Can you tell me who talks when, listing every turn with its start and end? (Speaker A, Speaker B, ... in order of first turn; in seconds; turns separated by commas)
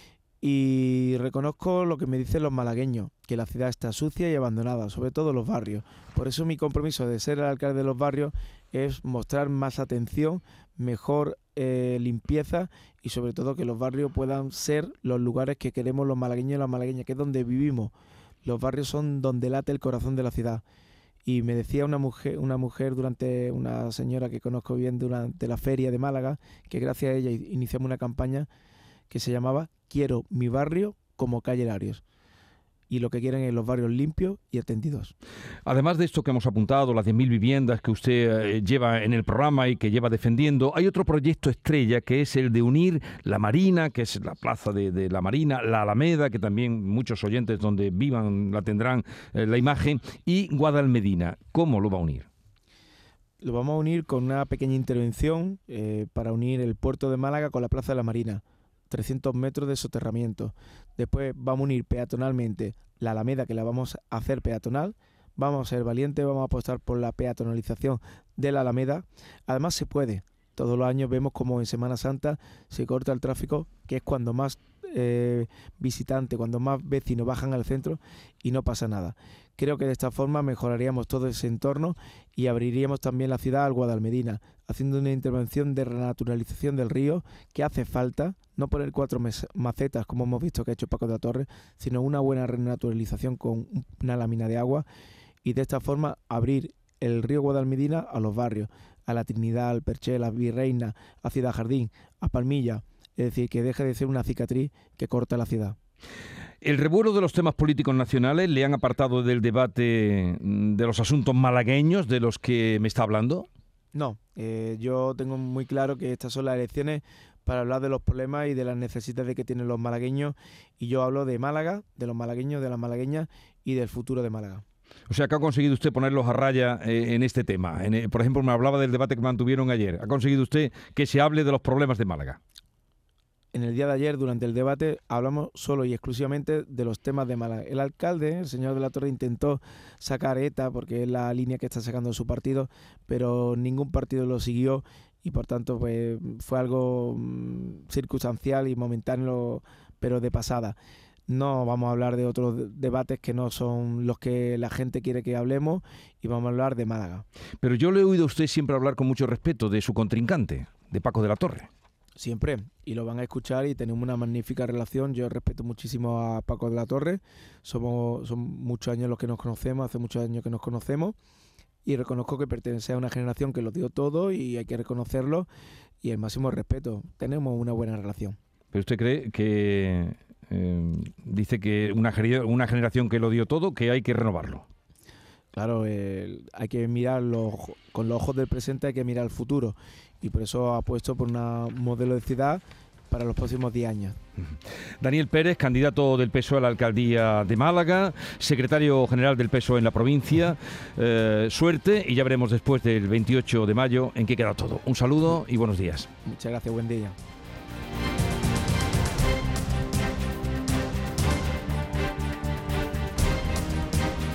Speaker A: 0.4-20.6, Speaker A: 21.2-28.5, Speaker A: 29.1-32.0, Speaker A: 32.9-35.1, Speaker B: 35.6-52.3, Speaker A: 53.4-94.8, Speaker A: 95.4-105.8, Speaker B: 106.6-113.5, Speaker A: 113.9-124.6, Speaker B: 125.1-132.4, Speaker A: 133.5-150.8, Speaker A: 151.3-157.2, Speaker B: 157.6-161.7, Speaker A: 162.2-171.1, Speaker A: 171.8-175.5, Speaker A: 176.0-178.4, Speaker B: 178.7-184.7, Speaker A: 185.5-194.2, Speaker B: 195.0-206.1, Speaker A: 206.2-207.2